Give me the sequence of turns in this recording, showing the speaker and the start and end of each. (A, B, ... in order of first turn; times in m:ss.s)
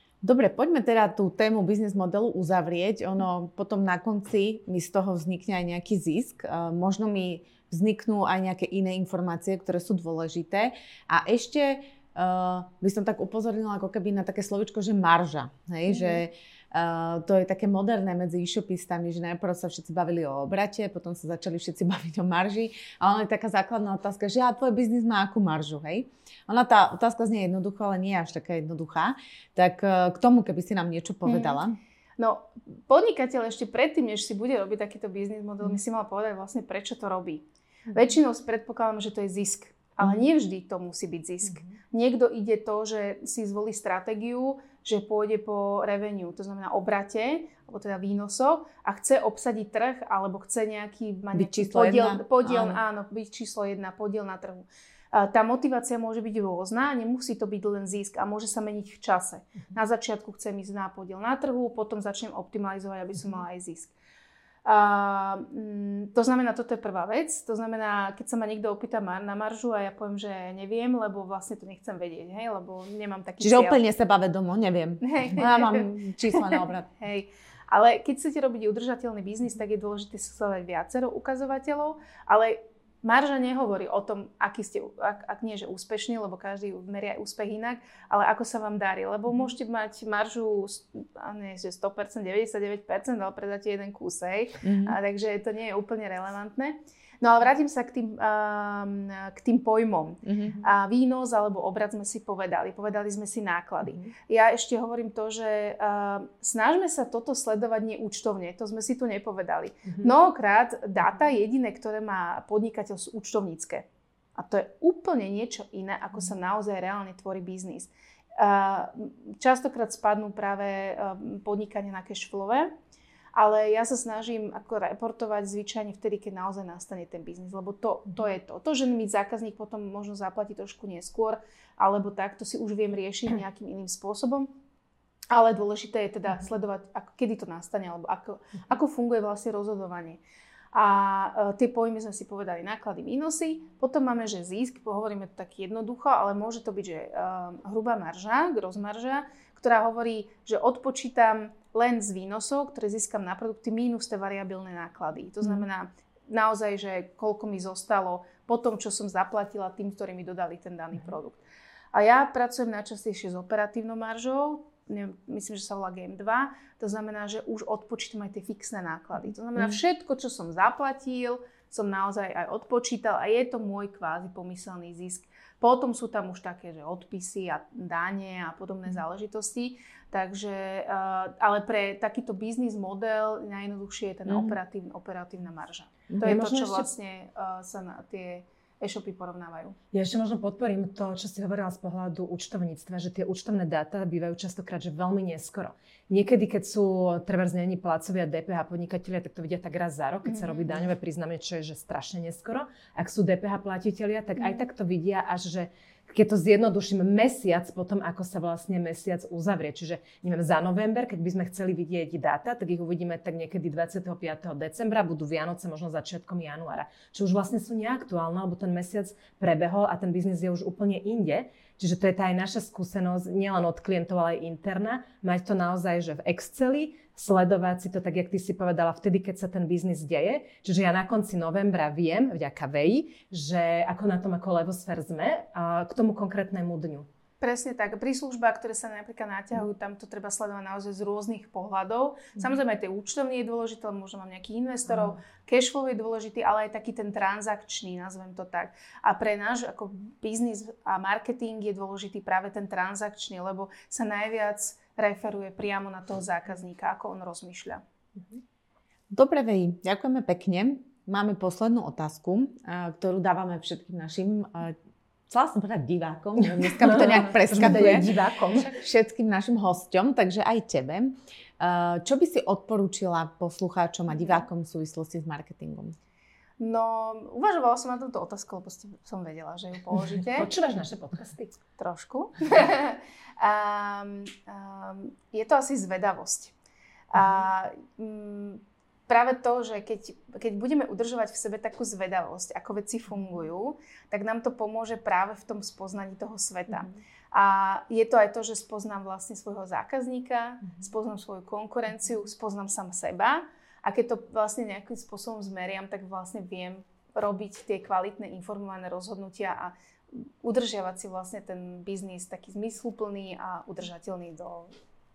0:00.2-0:31.8 A
0:15.9-0:16.2 B
0:31.2-0:31.6 B
0:32.2-1:03.9 B
0:51.3-0:52.8 A
1:04.6-1:13.8 B
1:13.4-1:16.9 A
1:15.0-1:53.8 B
1:34.6-1:35.0 A
1:40.2-1:40.6 A
1:54.4-2:02.7 B
2:03.3-2:14.5 B
2:15.3-2:20.2 B
2:20.7-2:41.4 B
2:41.9-3:09.8 B
3:04.3-3:04.6 A
3:06.2-3:06.9 C
3:09.9-3:57.1 C
3:20.2-3:20.8 B
3:57.4-4:17.8 B
4:19.1-4:24.8 A
4:25.3-4:36.0 A
4:26.4-4:28.7 C
4:36.6-4:40.5 B
4:40.3-4:41.6 C
4:41.8-4:46.5 B
4:47.1-5:14.7 B